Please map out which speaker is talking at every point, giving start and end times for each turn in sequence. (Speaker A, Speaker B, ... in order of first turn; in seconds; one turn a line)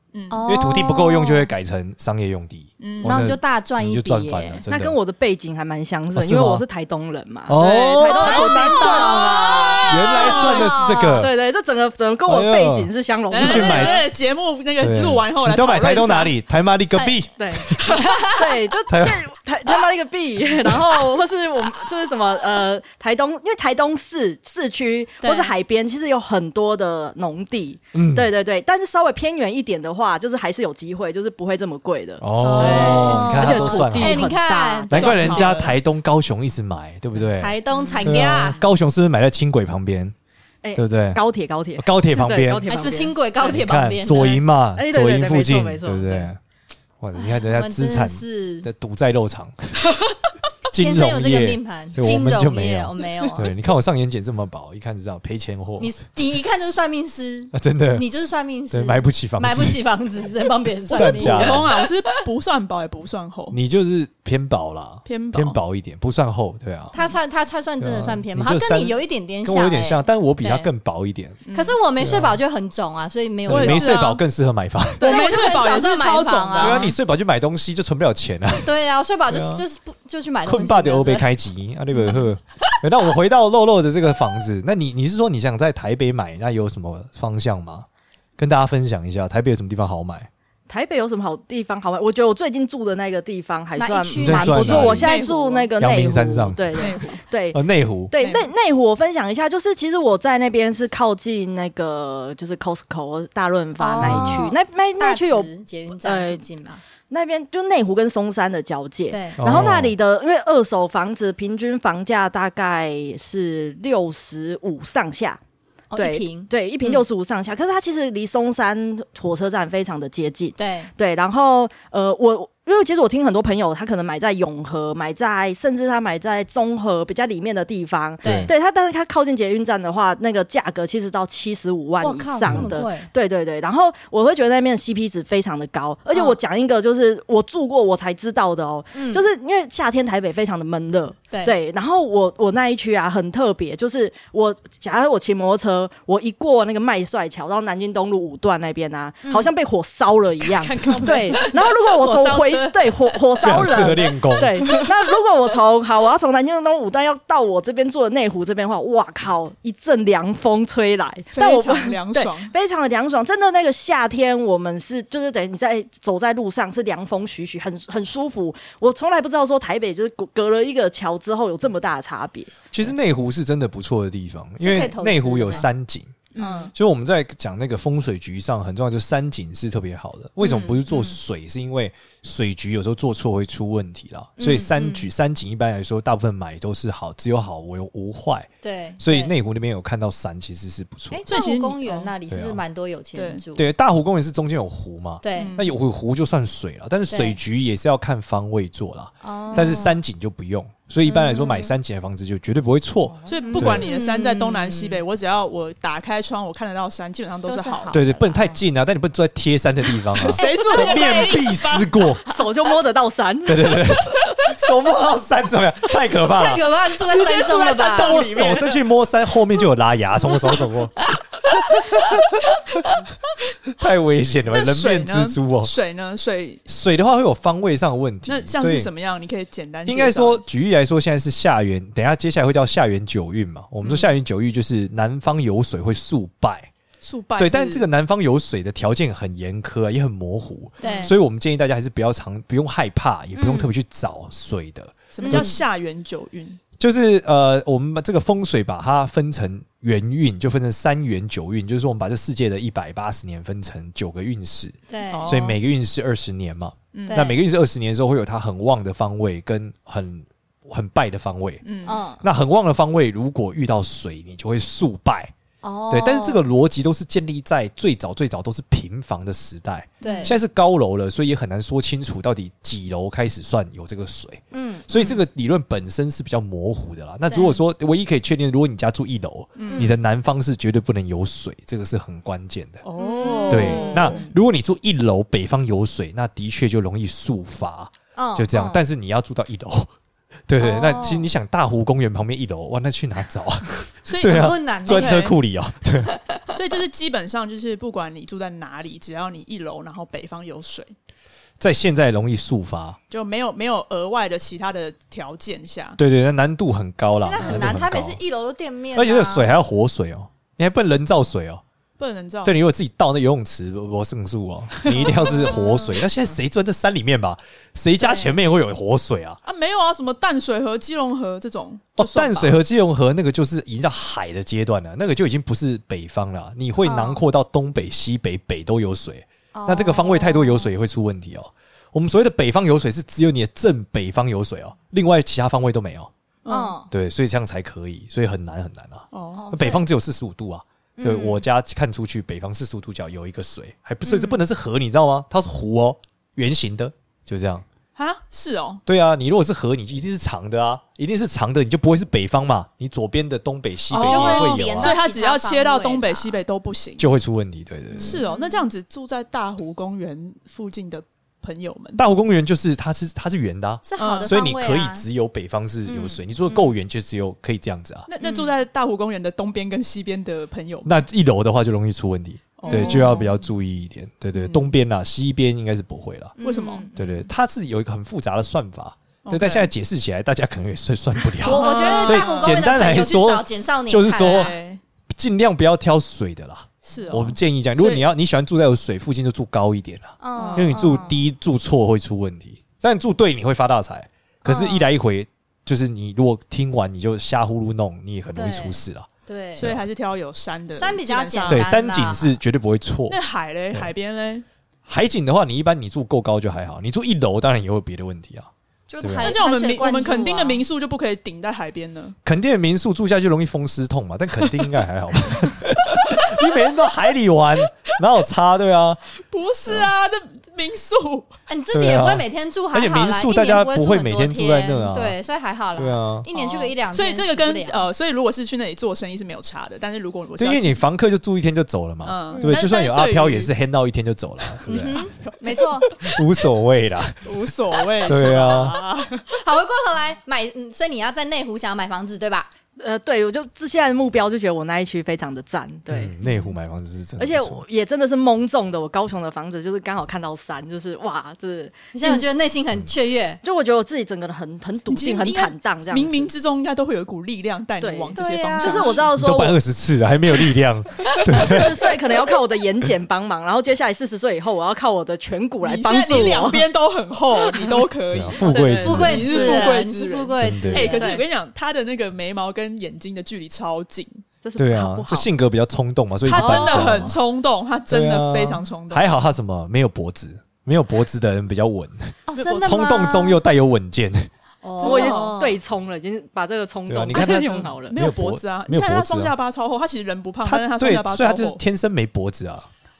Speaker A: 0.1-0.4
Speaker B: 0.3-1.5
Speaker C: 0.5-5.0
Speaker A: 2.8-3.2
Speaker B: 3.0-4.6
Speaker D: 4.7-14.0
Speaker C: 6.1-6.6
Speaker C: 7.5-11.3
Speaker B: 8.1-11.2
Speaker C: 12.2-14.0
Speaker A: 13.3-16.3
Speaker C: 14.8-17.8
Speaker D: 17.4-35.5
Speaker B: 17.7-18.6
Speaker C: 18.9-19.2
Speaker B: 25.2-25.5
Speaker C: 27.9-28.3
Speaker C: 32.2-34.4
Speaker B: 32.4-35.2
Speaker C: 34.9-40.1
Speaker A: 34.9-35.8
Speaker B: 37.4-38.6
Speaker D: 40.6-43.6
Speaker C: 40.8-41.2
Speaker C: 41.8-42.9
Speaker B: 42.7-44.4
Speaker C: 43.4-46.4
Speaker D: 44.7-46.3
Speaker C: 47.0-49.9
Speaker B: 47.1-48.7
Speaker B: 50.7-53.5
Speaker C: 50.7-55.9
Speaker B: 55.8-61.9
Speaker C: 57.5-58.0
Speaker C: 58.7-59.8
Speaker A: 60.9-63.6
Speaker C: 60.9-61.7
Speaker C: 63.5-66.9
Speaker A: 65.0-65.6
Speaker B: 66.9-70.7
Speaker C: 67.8-71.4
Speaker A: 71.5-71.8
Speaker B: 71.5-74.0
Speaker C: 72.0-72.4
Speaker C: 73.5-75.3
Speaker A: 73.5-74.2
Speaker A: 75.0-76.9
Speaker B: 75.0-76.9
Speaker C: 76.6-78.7
Speaker B: 78.6-81.3
Speaker C: 79.3-79.6
Speaker C: 80.4-87.8
Speaker B: 82.1-82.7
Speaker C: 88.4-90.3
Speaker D: 90.7-105.5
Speaker B: 93.8-95.0
Speaker C: 94.2-95.2
Speaker A: 94.8-95.7
Speaker C: 95.8-96.9
Speaker A: 96.7-97.2
Speaker C: 97.5-98.1
Speaker A: 98.2-98.5
Speaker B: 103.8-106.8
Speaker C: 104.0-104.5
Speaker D: 106.0-106.4
Speaker D: 107.0-115.4
Speaker B: 109.1-109.7
Speaker C: 109.4-109.9
Speaker B: 115.9-117.0
Speaker D: 116.0-172.7
Speaker B: 120.6-120.9
Speaker B: 128.2-128.5
Speaker C: 128.2-128.5
Speaker B: 132.0-133.1
Speaker C: 132.5-132.7
Speaker B: 136.1-136.4
Speaker B: 138.9-139.2
Speaker B: 149.2-149.5
Speaker B: 150.4-154.0
Speaker A: 150.9-151.2
Speaker C: 153.4-154.6
Speaker A: 161.3-162.5
Speaker C: 172.7-188.5
Speaker B: 174.6-175.7
Speaker A: 176.3-176.7
Speaker B: 176.4-176.7
Speaker B: 180.4-181.2
Speaker B: 184.4-185.1
Speaker B: 188.6-189.3
Speaker C: 189.0-191.2
Speaker B: 191.1-193.7
Speaker A: 191.3-192.1
Speaker C: 192.3-192.6
Speaker A: 193.1-193.4
Speaker C: 193.6-203.9
Speaker B: 195.2-195.6
Speaker A: 195.3-195.7
Speaker B: 197.1-197.4
Speaker B: 199.2-200.0
Speaker A: 199.5-199.8
Speaker B: 201.0-201.7
Speaker A: 203.2-208.0
Speaker B: 203.4-205.0
Speaker B: 207.5-208.6
Speaker C: 207.9-212.2
Speaker A: 210.2-212.1
Speaker B: 210.4-211.1
Speaker D: 212.3-214.1
Speaker C: 213.4-222.2
Speaker B: 216.2-218.3
Speaker A: 217.7-218.8
Speaker D: 218.3-218.6
Speaker C: 223.7-225.7
Speaker A: 224.5-226.7
Speaker C: 226.7-228.9
Speaker A: 228.2-230.5
Speaker C: 229.8-236.7
Speaker A: 233.8-234.1
Speaker A: 237.0-237.9
Speaker C: 237.4-245.5
Speaker B: 240.8-241.1
Speaker A: 240.8-241.1
Speaker B: 243.3-243.7
Speaker A: 245.1-246.6
Speaker B: 245.2-245.6
Speaker C: 246.8-261.6
Speaker B: 254.9-255.3
Speaker A: 255.1-255.6
Speaker A: 256.9-257.3
Speaker B: 257.1-257.4
Speaker A: 261.6-262.0
Speaker B: 261.9-262.2
Speaker C: 262.2-265.3
Speaker B: 265.6-266.4
Speaker C: 265.9-282.8
Speaker A: 270.0-270.4
Speaker B: 270.0-270.4
Speaker B: 274.5-274.9
Speaker B: 277.3-277.6
Speaker A: 279.6-279.9
Speaker B: 279.6-280.0
Speaker A: 282.8-284.3
Speaker B: 283.0-284.3
Speaker C: 283.5-289.9
Speaker B: 288.1-288.8
Speaker C: 290.5-296.1
Speaker B: 290.6-291.3
Speaker A: 294.1-295.4
Speaker B: 294.1-295.2
Speaker B: 296.1-296.4
Speaker A: 296.5-300.9
Speaker C: 301.6-303.0
Speaker A: 303.1-306.0
Speaker C: 306.0-308.2
Speaker B: 307.2-309.5
Speaker A: 307.4-307.7
Speaker C: 308.9-311.6
Speaker A: 312.0-312.5
Speaker C: 312.4-319.4
Speaker B: 314.9-316.0
Speaker B: 318.0-318.3
Speaker A: 319.4-322.6
Speaker C: 322.0-336.1
Speaker B: 326.8-327.2
Speaker B: 329.5-330.7
Speaker A: 336.4-336.7
Speaker B: 336.5-336.9
Speaker C: 336.9-347.6
Speaker A: 339.1-339.5
Speaker B: 339.4-339.8
Speaker B: 341.0-341.4
Speaker A: 344.1-344.3
Speaker A: 347.9-348.8
Speaker C: 348.9-355.0
Speaker A: 353.9-357.1
Speaker B: 354.0-356.4
Speaker C: 357.0-358.2
Speaker B: 357.9-358.6
Speaker A: 358.0-362.0
Speaker C: 362.0-368.1
Speaker B: 363.8-365.0
Speaker A: 364.0-364.3
Speaker B: 365.8-366.7
Speaker A: 368.1-371.0
Speaker B: 368.2-368.5
Speaker C: 370.8-376.3
Speaker A: 372.6-373.2
Speaker B: 372.7-373.4
Speaker B: 376.4-377.3
Speaker A: 376.4-376.9
Speaker C: 376.9-384.5
Speaker A: 379.2-379.7
Speaker B: 381.4-384.5
Speaker A: 381.4-382.8
Speaker A: 384.1-384.8
Speaker C: 385.1-399.1
Speaker A: 386.8-388.1
Speaker B: 390.2-391.2
Speaker A: 390.3-390.8
Speaker B: 394.4-394.9
Speaker B: 398.3-399.7
Speaker A: 399.6-401.7
Speaker B: 400.8-402.4
Speaker C: 401.5-403.2
Speaker A: 403.1-404.4
Speaker C: 404.9-408.5
Speaker B: 408.9-410.6
Speaker C: 409.0-409.3
Speaker A: 409.2-412.1
Speaker C: 412.2-419.0
Speaker A: 419.2-421.3
Speaker B: 421.5-427.9
Speaker C: 421.7-425.1
Speaker C: 425.8-426.3
Speaker A: 426.3-430.9
Speaker C: 430.4-435.1
Speaker A: 432.0-433.5
Speaker B: 432.3-432.6
Speaker B: 434.7-435.9
Speaker A: 434.7-436.2
Speaker C: 436.0-437.3
Speaker A: 437.2-439.2
Speaker C: 438.0-438.8
Speaker B: 439.3-442.5
Speaker D: 442.8-446.1
Speaker C: 445.9-447.6
Speaker D: 447.2-452.2
Speaker B: 451.9-453.4
Speaker D: 453.4-456.3
Speaker A: 454.9-459.1
Speaker D: 457.8-459.6
Speaker B: 458.1-459.0
Speaker C: 459.1-461.8
Speaker D: 461.3-466.7
Speaker A: 465.6-474.2
Speaker D: 467.4-467.9
Speaker C: 468.1-469.6
Speaker D: 468.4-469.7
Speaker B: 468.8-471.2
Speaker C: 470.4-470.9
Speaker D: 470.8-471.2
Speaker D: 474.4-475.3
Speaker C: 474.6-477.2
Speaker A: 476.2-479.3
Speaker D: 476.3-477.1
Speaker C: 477.9-484.3
Speaker B: 482.3-483.4
Speaker A: 482.4-482.6
Speaker B: 484.6-485.6
Speaker A: 484.8-485.4
Speaker D: 484.8-488.0
Speaker C: 486.9-489.3
Speaker A: 487.1-491.6
Speaker C: 490.4-492.7